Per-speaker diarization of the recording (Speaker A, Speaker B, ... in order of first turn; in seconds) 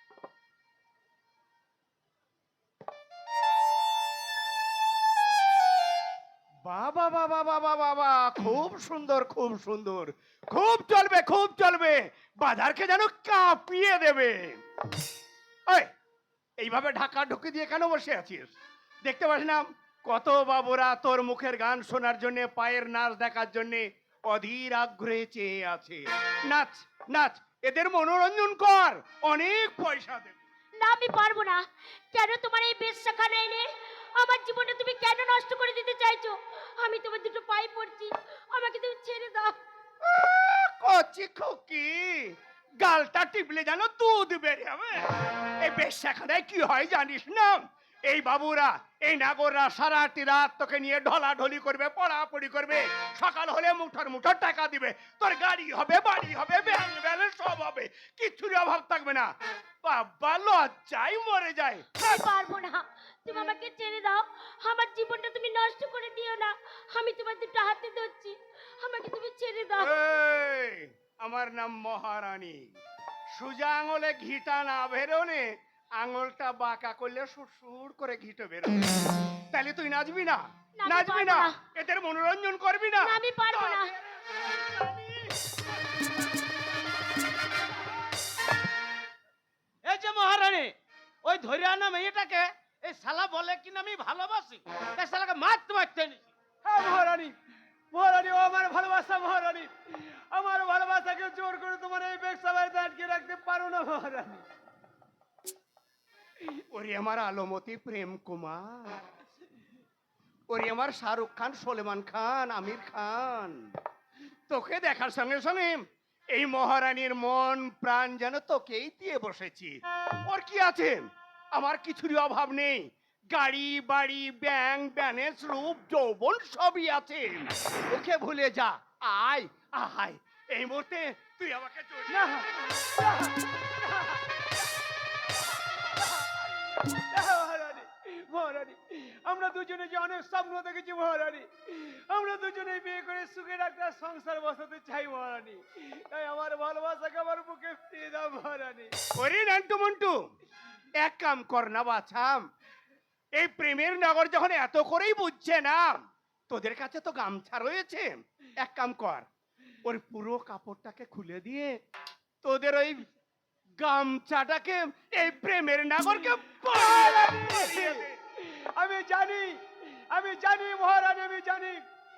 Speaker A: 6.7-14.6, 16.6-18.5, 19.0-30.4, 40.0-45.1, 45.6-59.3, 59.8-62.2, 69.8-72.6, 73.4-75.5, 76.0-85.3, 106.5-108.9, 110.5-113.6, 114.5-115.8, 116.3-119.8, 120.3-121.0, 121.5-132.4, 149.2-150.2, 151.0-152.4, 153.4-155.8, 156.5-159.3, 159.8-161.7, 162.4-163.1, 163.8-168.1
Speaker B: 30.8-31.6, 32.1-33.7, 34.2-39.6, 62.0-69.9, 80.8-81.6, 83.0-83.9
Speaker C: 89.8-90.7, 91.2-96.3
Speaker D: 96.7-97.3, 97.9-104.5, 132.1-134.5, 135.8-148.9, 166.7-171.8